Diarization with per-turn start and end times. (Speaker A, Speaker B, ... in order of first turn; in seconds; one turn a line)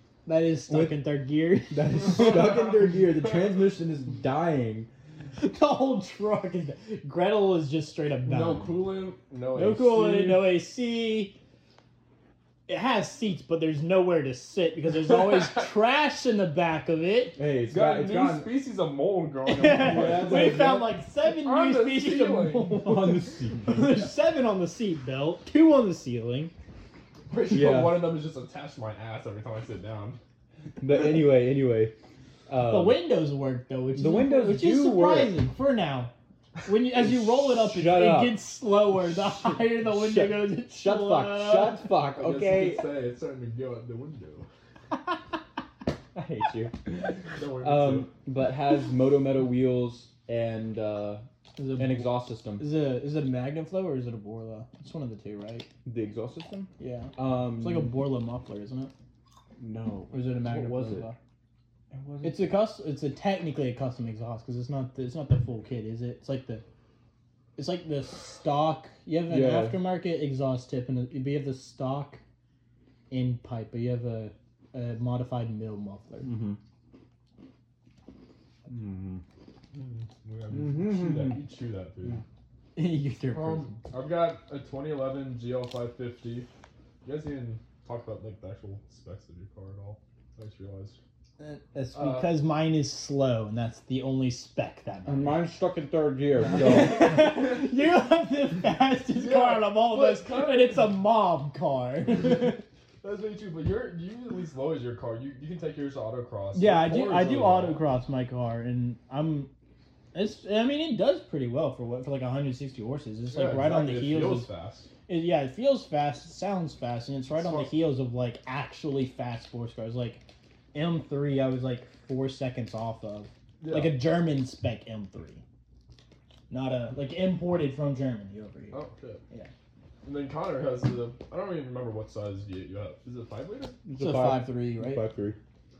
Speaker A: 0.2-2.5
Speaker B: 0.7-1.0
Speaker B: 1.7-4.9
Speaker A: 5.4-8.8
Speaker C: 8.2-10.5
Speaker A: 9.5-11.3
Speaker A: 12.7-17.4
Speaker B: 17.4-18.5
Speaker C: 17.7-20.7
Speaker A: 19.4-26.5
Speaker B: 19.6-20.9
Speaker C: 21.2-22.8
Speaker B: 22.8-24.1
Speaker C: 27.3-30.2
Speaker B: 27.5-28.1
Speaker B: 30.8-31.9
Speaker B: 32.5-33.0
Speaker A: 32.6-36.1
Speaker B: 33.9-35.4
Speaker A: 36.6-41.9
Speaker B: 37.0-38.4
Speaker B: 39.8-42.9
Speaker C: 42.0-44.5
Speaker B: 46.1-51.2
Speaker C: 47.3-48.1
Speaker A: 51.6-55.7
Speaker B: 51.8-52.6
Speaker B: 55.8-57.9
Speaker A: 56.8-58.9
Speaker B: 59.6-61.1
Speaker A: 60.1-61.2
Speaker B: 61.9-62.6
Speaker A: 62.2-66.6
Speaker A: 67.5-72.2
Speaker B: 69.3-69.8
Speaker A: 73.1-76.3
Speaker B: 76.2-76.6
Speaker B: 78.7-79.2
Speaker C: 79.7-82.2
Speaker B: 80.5-81.4
Speaker A: 82.8-83.8
Speaker C: 83.3-86.5
Speaker C: 87.0-91.0
Speaker A: 91.4-95.4
Speaker C: 91.9-92.4
Speaker B: 95.1-97.3
Speaker A: 96.4-102.6
Speaker C: 99.1-100.9
Speaker C: 103.0-107.8
Speaker A: 106.5-109.5
Speaker A: 110.1-114.5
Speaker C: 113.3-114.9
Speaker A: 115.1-125.4
Speaker C: 117.3-117.7
Speaker C: 123.6-124.0
Speaker A: 126.5-129.5
Speaker C: 128.7-129.2
Speaker C: 130.0-133.8
Speaker B: 133.8-135.4
Speaker A: 133.9-135.0